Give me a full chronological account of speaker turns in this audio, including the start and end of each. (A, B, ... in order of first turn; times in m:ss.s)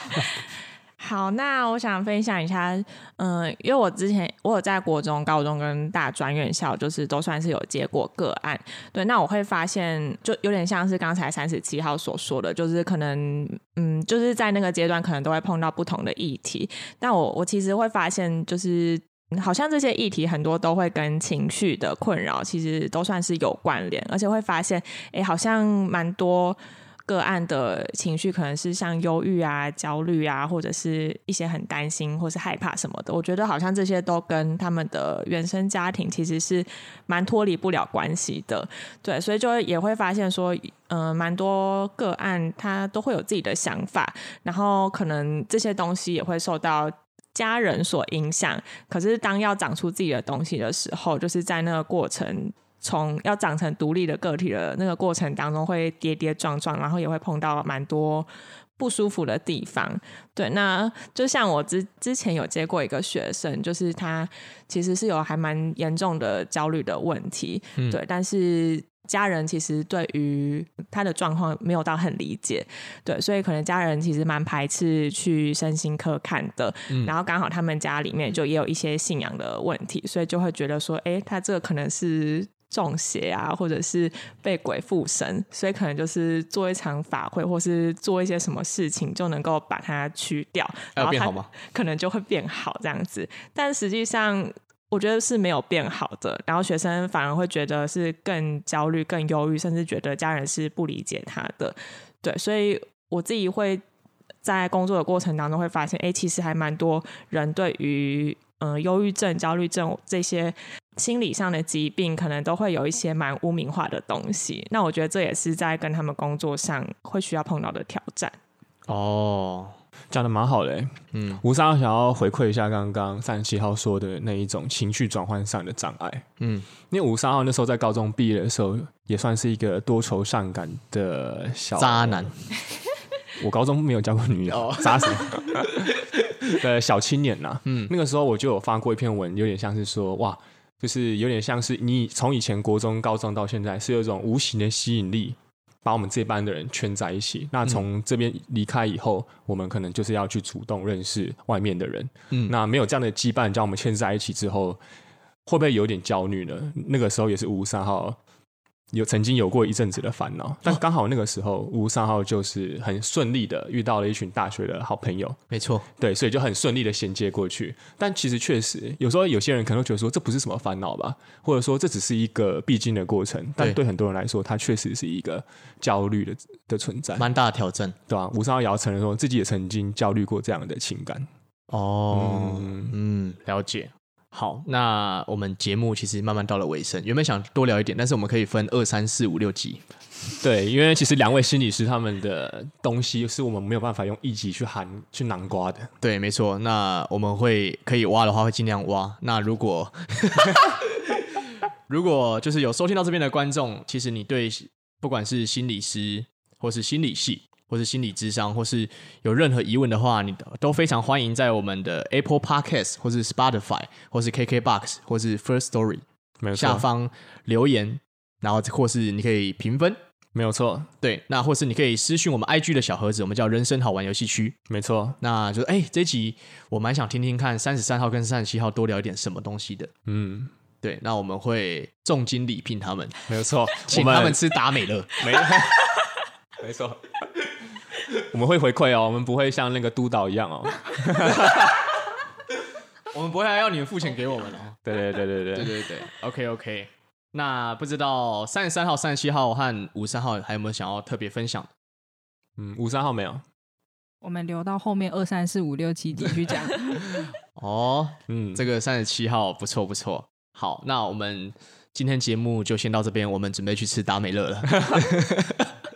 0:01.0-0:58.3 A
0:58.8-1:43.8 A
1:31.0-1:31.5 B
1:44.4-1:58.3 A
1:58.9-1:59.8 B
2:00.1-2:06.2 C
2:01.1-2:01.4 B
2:06.4-2:06.7 B
2:06.8-2:12.3 C
2:11.8-2:12.3 B
2:13.4-2:34.8 C
2:14.5-2:15.4 B
2:17.6-2:17.9 B
2:35.4-2:38.2 C
2:38.9-2:45.4 C
2:45.5-2:45.9 B
2:45.9-2:57.3 C
2:57.2-2:58.0 B
2:58.1-3:01.3 C
3:01.7-3:09.8 B
3:02.1-3:02.9 C
3:10.4-3:15.9 C
3:16.0-3:20.8 B
3:21.9-3:36.0 B
3:36.4-3:36.8 C
3:36.6-3:40.0 B
3:40.4-3:40.9 C
3:41.0-3:44.6 B
3:44.7-3:45.2 C
3:45.2-3:49.9 B
3:50.1-3:50.5 C
3:50.8-3:53.2 B
3:53.3-3:54.4 C
3:53.9-3:55.6 B
3:55.2-3:55.8 C
3:56.6-3:57.0 C
3:58.2-4:02.0 C
4:03.1-4:04.8 B
4:04.8-4:05.8 C
4:05.5-4:11.7 B
4:12.6-4:13.4 C
4:14.2-4:17.3 D
4:17.6-4:25.4 B
4:18.3-4:18.6 C
4:24.8-4:25.1 C